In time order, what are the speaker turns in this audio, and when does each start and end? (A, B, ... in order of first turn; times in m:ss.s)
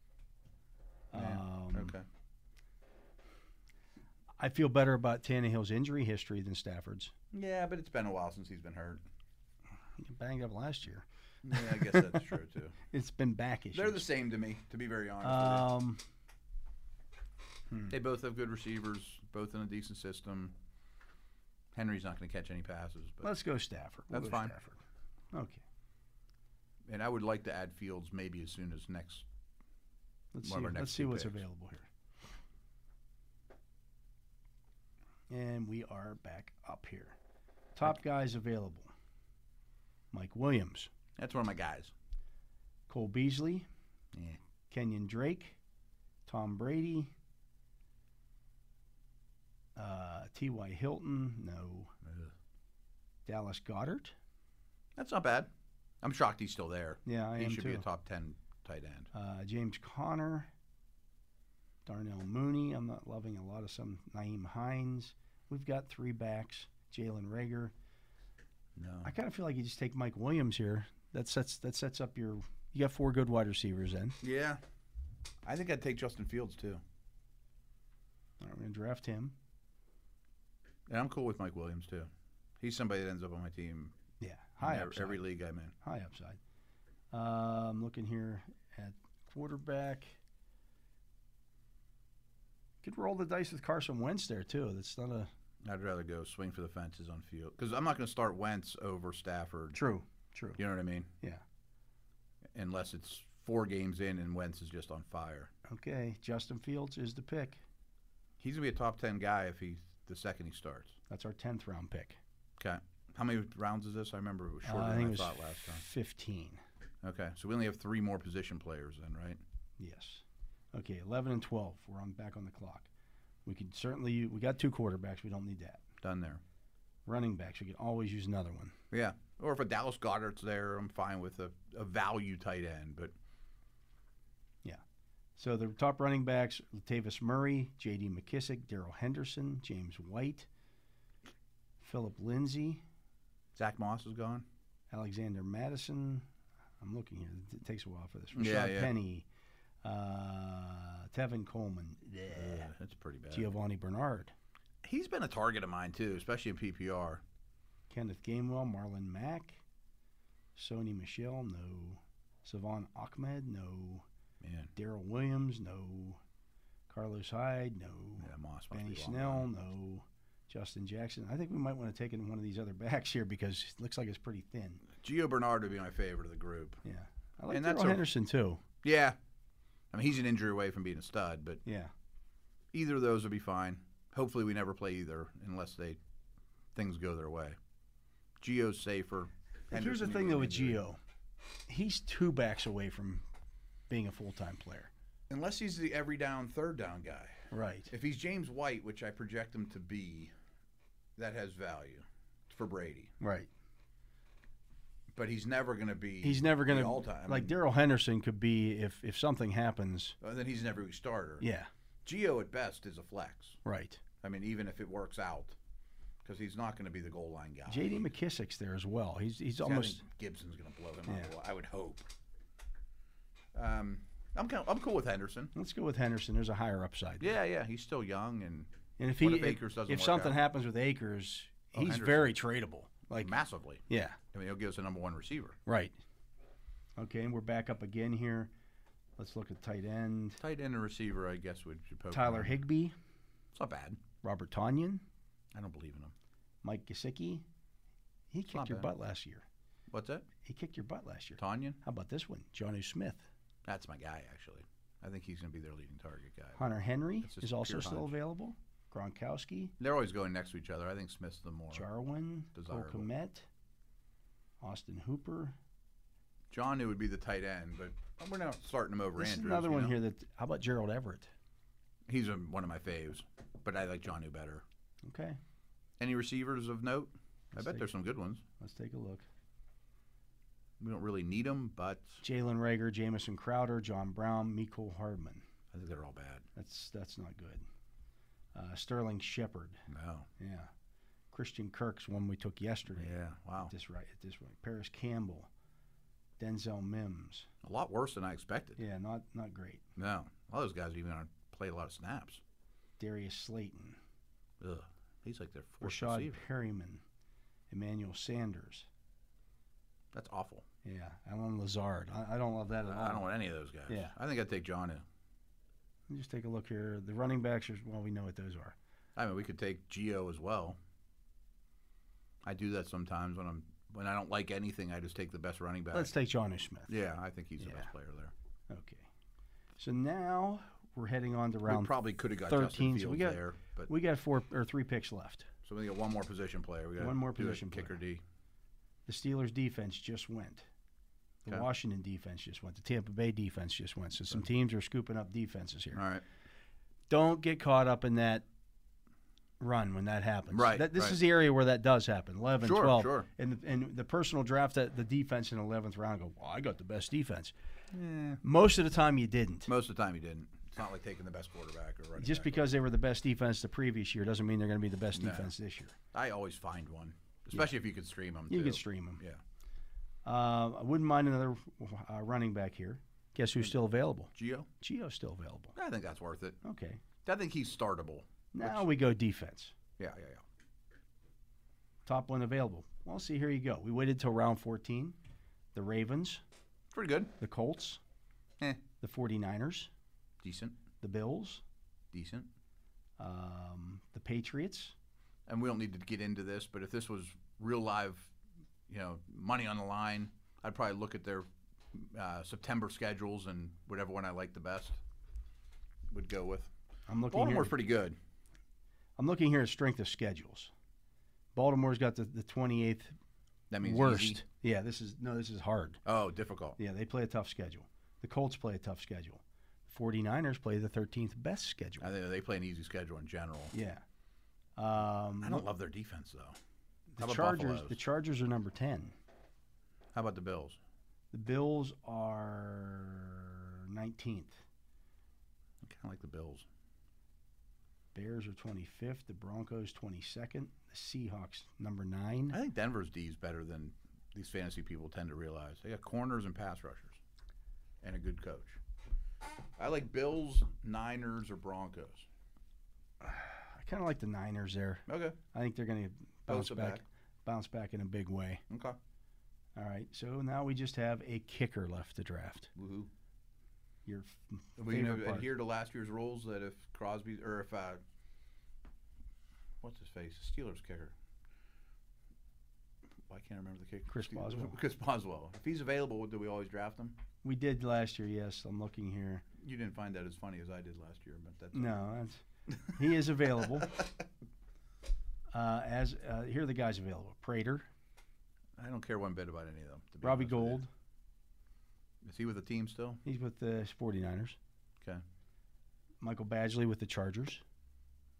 0:01.1-0:02.0 A
0:01.1-0:02.0 B
0:04.4-0:07.1 A
0:07.3-0:09.0 B
0:10.0-0:12.3 A
0:11.4-0:12.8 B
0:12.9-0:14.1 A
0:13.7-0:15.7 B
0:15.2-0:16.0 A
0:17.9-0:20.6 B
0:21.7-0:23.3 B
0:23.2-0:24.8 A
0:24.1-0:24.5 B
0:25.3-0:25.6 A
0:26.9-0:29.3 B
0:30.3-0:31.9 A
0:30.4-0:31.4 B
0:35.3-0:37.2 A
0:37.8-0:38.9 A
0:40.1-0:40.9 A
0:41.2-0:41.9 B
0:42.9-0:43.7 A
0:44.1-0:44.4 B
0:44.7-0:45.6 A
0:46.3-0:47.1 A
0:49.8-0:51.9 A
0:52.0-0:52.3 B
0:53.3-0:54.2 A
0:55.0-0:55.5 B
0:56.0-0:59.1 B
0:57.1-0:57.8 A
0:59.1-1:00.5 A
1:01.9-1:07.7 A
1:08.8-1:09.1 B
1:09.0-1:14.2 A
1:14.2-1:14.6 B
1:15.4-1:16.8 B
1:18.4-1:19.4 A
1:20.9-1:24.0 B
1:24.2-1:25.2 A
1:24.6-1:25.7 B
1:25.8-1:26.4 A
1:27.1-1:30.2 A
1:32.8-1:35.3 A
1:35.6-1:39.8 B
1:39.7-1:40.6 A
1:40.6-1:41.1 B
1:42.5-1:45.5 B
1:45.7-1:47.6 A
1:48.4-1:51.0 B
1:51.1-1:52.2 A
1:52.6-1:55.8 B
1:54.6-1:56.6 A
1:57.0-1:59.4 B
1:59.8-2:02.9 A
2:03.4-2:05.8 A
2:06.0-2:06.4 B
2:07.1-2:08.8 A
2:08.9-2:13.1 B
2:15.4-2:20.5 A
2:21.8-2:22.8 A
2:23.6-2:24.5 B
2:24.9-2:26.3 A
2:26.8-2:29.3 A
2:28.3-2:28.9 B
2:29.8-2:32.7 A
2:32.3-2:33.5 B
2:33.3-2:34.3 A
2:34.8-2:37.2 B
2:37.9-2:39.6 A
2:40.6-2:44.0 A
2:44.4-2:44.7 B
2:44.8-2:46.2 A
2:46.9-2:54.8 A
2:48.2-2:49.5 B
2:54.9-2:56.8 B
2:56.8-2:58.6 A
2:57.5-2:58.1 B
2:58.8-2:59.2 B
2:59.9-3:01.6 B
3:01.6-3:01.9 A
3:02.7-3:06.0 B
3:06.8-3:07.6 B
3:08.4-3:10.8 B
3:09.7-3:11.0 A
3:11.7-3:13.2 A
3:13.9-3:14.9 A
3:15.3-3:20.3 B
3:17.5-3:17.9 A
3:21.2-3:23.1 B
3:23.2-3:23.5 A
3:25.1-3:27.6 B
3:26.2-3:30.2 A
3:30.2-3:31.4 B
3:31.4-3:31.7 A
3:32.0-3:33.6 B
3:33.6-3:34.0 A
3:34.2-3:35.6 B
3:36.2-3:38.1 B
3:37.7-3:40.0 A
3:39.6-3:42.1 B
3:43.5-3:45.5 B
3:45.6-3:47.3 A
3:47.2-3:50.4 B
3:49.0-3:53.3 A
3:51.8-3:52.4 B
3:53.2-3:55.6 B
3:53.9-3:54.2 A
3:55.7-3:55.9 A
3:57.0-3:58.5 A
3:59.2-4:00.4 A
4:00.4-4:02.6 B
4:02.1-4:03.0 A
4:03.5-4:04.0 B
4:04.2-4:05.0 A
4:05.5-4:06.1 B
4:06.6-4:07.4 A
4:08.3-4:09.4 A
4:08.5-4:08.9 B
4:09.9-4:10.3 B
4:10.4-4:13.3 A
4:11.4-4:11.8 B
4:13.6-4:16.6 B
4:16.6-4:19.7 A
4:17.2-4:18.2 B
4:19.8-4:21.9 B
4:21.7-4:23.5 A
4:22.6-4:23.1 B
4:24.6-4:25.6 A
4:26.5-4:30.0 B
4:29.2-4:31.3 A
4:32.1-4:34.6 B
4:35.0-4:35.4 A
4:36.0-4:38.4 B
4:37.5-4:37.9 A
4:38.6-4:39.2 A
4:40.8-4:42.2 B
4:42.2-4:45.4 A
4:45.7-4:46.5 B
4:46.6-4:47.6 A
4:48.5-4:49.8 A
4:49.9-4:50.3 B
4:50.4-4:50.7 A
4:51.3-4:55.5 A
4:52.9-4:53.7 B
4:56.4-4:57.5 A
4:57.6-4:58.8 B
4:58.8-4:59.8 A
5:00.0-5:02.4 B
5:03.0-5:04.0 A
5:04.6-5:06.4 B
5:05.8-5:07.0 A
5:07.7-5:08.9 A
5:10.1-5:10.6 B
5:10.8-5:13.3 A
5:12.9-5:15.0 B
5:13.9-5:14.2 A
5:16.1-5:18.8 A
5:19.2-5:20.8 B
5:22.4-5:26.1 B
5:25.9-5:26.9 A
5:26.9-5:28.3 B
5:27.6-5:27.9 A
5:28.7-5:29.1 A
5:29.8-5:31.9 A
5:31.7-5:33.9 B
5:32.4-5:35.5 A
5:35.6-5:38.2 B
5:37.0-5:38.0 A
5:39.1-5:40.7 A
5:41.4-5:46.0 A
5:45.9-5:46.2 B
5:47.1-5:48.4 A
5:49.6-5:57.5 A
5:50.5-5:51.2 B
5:52.6-5:53.3 B
5:57.9-5:58.4 B
5:58.4-5:59.7 A
5:59.7-6:02.7 B
6:02.2-6:06.0 A
6:05.1-6:05.5 B
6:06.1-6:09.4 B
6:08.5-6:09.2 A
6:10.3-6:15.8 A
6:14.4-6:14.7 B
6:15.8-6:16.6 B
6:16.6-6:17.0 A
6:17.2-6:18.9 B
6:18.5-6:19.7 A
6:20.0-6:20.4 B
6:22.1-6:25.2 A
6:25.7-6:26.4 A
6:26.9-6:27.3 B
6:27.4-6:28.0 A
6:29.0-6:29.9 A
6:30.4-6:30.8 B
6:31.0-6:31.6 A
6:32.1-6:32.5 B
6:33.2-6:34.9 A
6:35.5-6:38.3 B
6:38.9-6:45.0 B
6:46.1-6:46.7 B
6:47.1-6:47.7 A
6:47.3-6:48.2 B
6:49.2-6:50.7 A
6:51.5-6:53.2 A
6:53.7-6:54.4 B
6:53.8-6:56.0 A
6:56.0-6:56.8 B
6:56.8-7:02.1 A
7:02.0-7:03.7 B
7:03.7-7:04.0 A
7:04.8-7:05.7 A
7:05.4-7:06.6 B
7:07.2-7:09.2 A
7:07.2-7:08.0 B
7:10.1-7:10.8 B
7:11.3-7:14.6 A
7:15.8-7:16.7 B
7:18.1-7:22.6 A
7:22.5-7:27.2 B
7:28.0-7:28.8 B
7:29.8-7:32.3 B
7:33.2-7:38.6 A
7:35.1-7:35.4 B
7:36.5-7:37.0 B
7:38.7-7:39.0 B
7:39.8-7:42.7 A
7:42.8-7:43.1 B
7:44.1-7:45.5 A
7:44.8-7:48.0 B
7:49.8-7:51.1 B
7:53.3-7:57.2 B
7:54.1-7:54.8 A
7:57.4-7:59.4 A
7:59.6-8:02.0 B
8:01.7-8:04.1 A
8:05.5-8:07.9 A
8:08.8-8:10.8 B
8:10.2-8:10.9 A
8:12.2-8:13.2 B
8:13.2-8:14.6 A
8:16.2-8:17.6 A